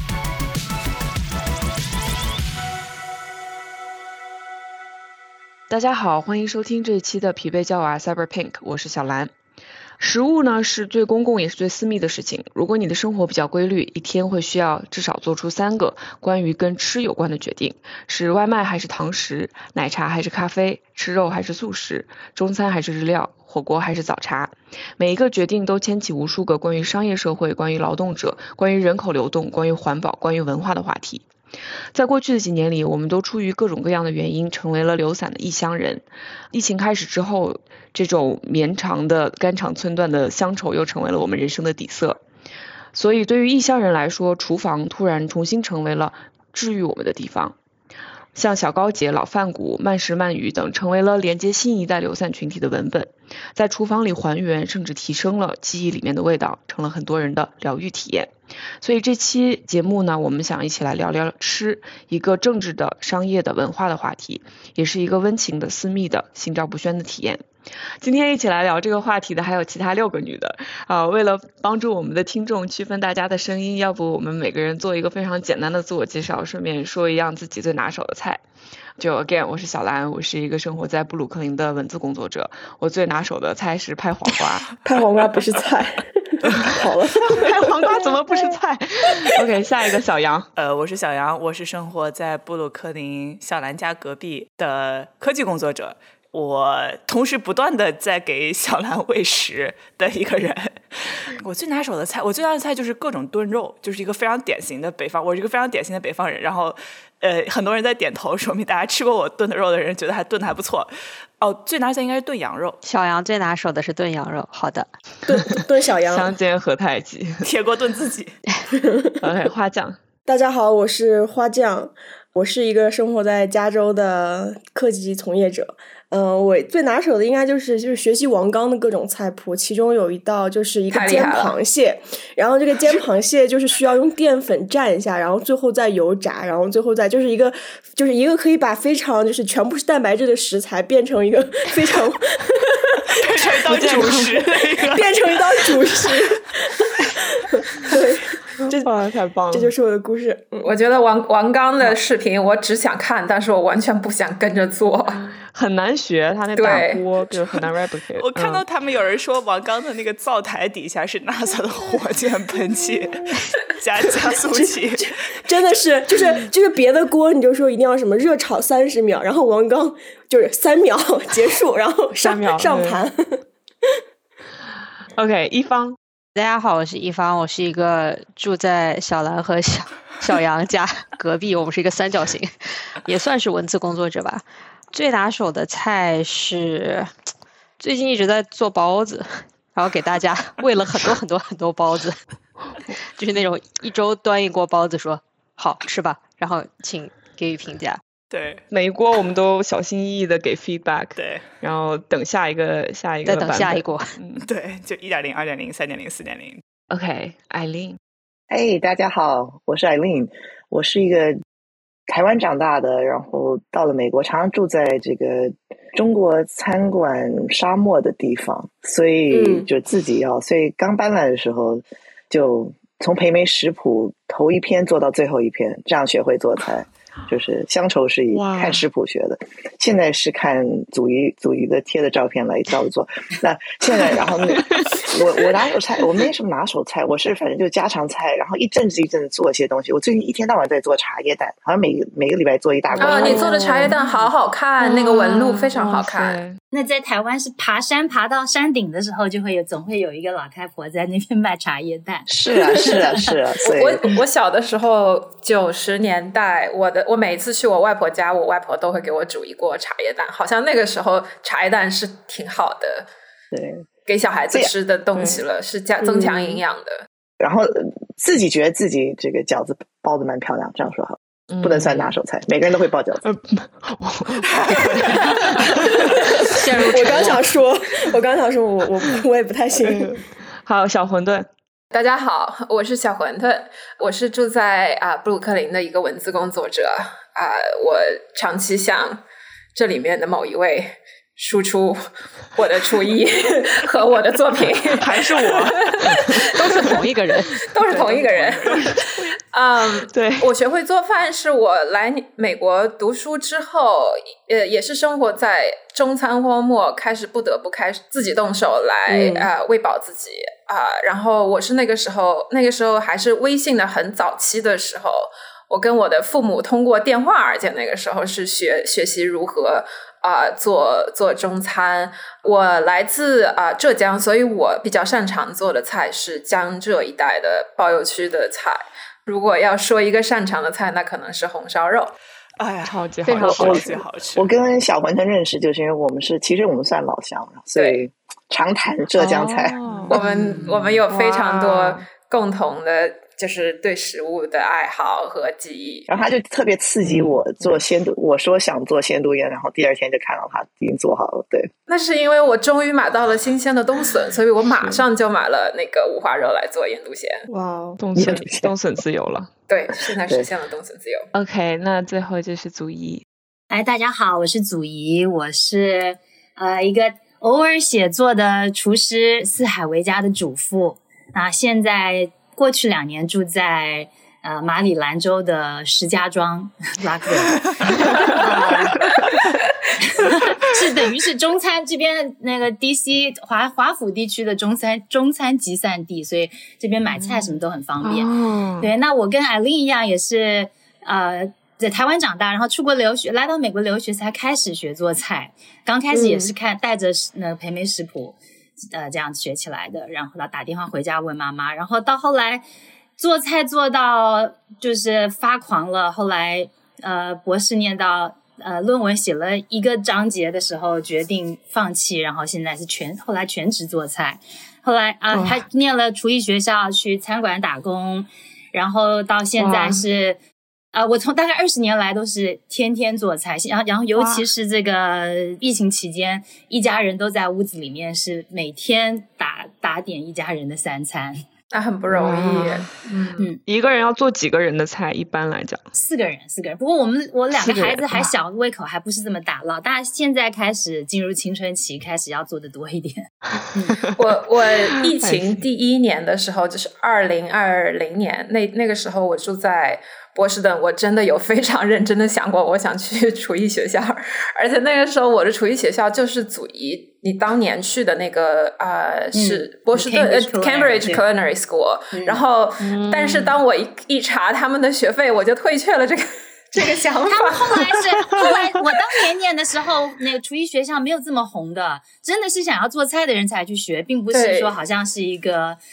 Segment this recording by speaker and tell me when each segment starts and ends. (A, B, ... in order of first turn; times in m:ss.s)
0:05.7-0:09.3 A
0:10.0-0:31.2 A
0:31.9-0:42.2 A
0:42.9-0:47.6 A
0:48.4-0:58.3 A
0:58.8-1:07.4 A
1:08.0-1:18.4 A
1:19.0-1:24.7 A
1:24.8-1:28.5 B
1:27.2-1:30.5 A
1:30.6-1:52.8 C
1:52.8-1:54.9 D
1:55.3-1:56.4 B
1:56.0-1:57.4 A
1:57.4-1:58.4 C
1:58.7-1:59.2 B
1:59.2-2:00.0 A
2:00.3-2:23.5 B
2:10.9-2:11.5 E
2:23.2-2:25.1 C
2:23.7-2:24.3 A
2:24.8-2:28.9 B
2:25.7-2:26.3 C
2:28.6-2:29.7 A
2:29.5-2:30.7 B
2:30.6-2:35.2 E
2:35.1-2:38.6 A
2:36.6-2:37.0 E
2:38.2-2:45.8 C
2:44.4-2:44.7 B
2:45.5-2:53.4 B
2:52.2-2:53.0 A
2:55.2-2:56.0 A
2:56.4-3:02.5 D
3:03.0-3:07.1 D
3:07.8-3:12.2 D
3:13.2-3:18.0 D
3:18.3-3:18.6 C
3:18.7-3:24.4 A
3:21.2-3:21.4 C
3:23.2-3:24.2 D
3:24.4-3:26.6 C
3:26.9-3:28.0 A
3:28.5-3:31.4 F
3:32.1-4:03.5 F
3:39.3-3:39.7 B
3:48.3-3:48.8 A
3:54.6-3:55.1 A
4:03.0-4:06.6 A
4:03.0-4:06.4 E
4:06.7-4:13.3 G
4:12.3-4:14.0 F
4:13.6-4:23.1 E
4:23.5-4:23.9 F
4:24.1-4:27.1 E
4:25.1-4:25.4 A
4:26.2-4:26.6 A
4:27.4-4:33.2 F
4:31.5-4:32.2 A
4:33.2-4:37.5 A
4:34.5-4:35.4 C
4:36.2-4:40.2 B
4:36.6-4:37.4 D
4:39.8-4:41.5 A
4:41.9-4:49.2 E
4:49.8-4:52.0 E
4:52.6-4:57.0 E
4:55.0-4:57.5 A
4:56.8-4:57.5 D
4:57.6-4:59.0 E
4:57.8-4:59.0 C
4:58.8-4:59.3 A
4:59.5-5:32.1 E
5:00.1-5:00.5 A
5:09.1-5:09.5 B
5:32.6-5:34.5 C
5:32.8-5:33.9 A
5:33.3-5:33.6 D
5:33.4-5:39.8 F
5:37.8-5:38.0 E
5:39.2-5:42.0 A
5:40.1-5:46.1 E
5:46.1-5:51.7 F
5:47.0-5:47.8 A
5:51.9-5:57.5 E
5:57.5-5:58.0 B
5:58.0-5:59.5 A
5:58.2-5:58.7 F
5:59.7-6:01.3 E
6:01.3-6:03.2 A
6:03.7-6:19.0 G
6:20.1-6:38.4 G
6:28.0-6:28.9 A
6:36.1-6:36.5 B
6:38.9-6:42.6 G
6:43.2-7:00.4 G
6:55.3-6:55.6 A
6:59.6-7:00.0 A
7:00.9-7:11.4 G
7:11.7-7:13.4 E
7:12.1-7:12.9 A
7:13.6-7:15.8 A
7:15.9-7:24.0 G
7:17.5-7:18.3 A
7:23.6-7:24.2 A
7:24.2-7:47.8 E
7:24.9-7:25.6 A
7:39.3-7:41.2 G
7:42.1-7:42.4 G
7:42.8-7:43.5 A
7:47.2-7:55.8 G
7:54.3-7:54.8 E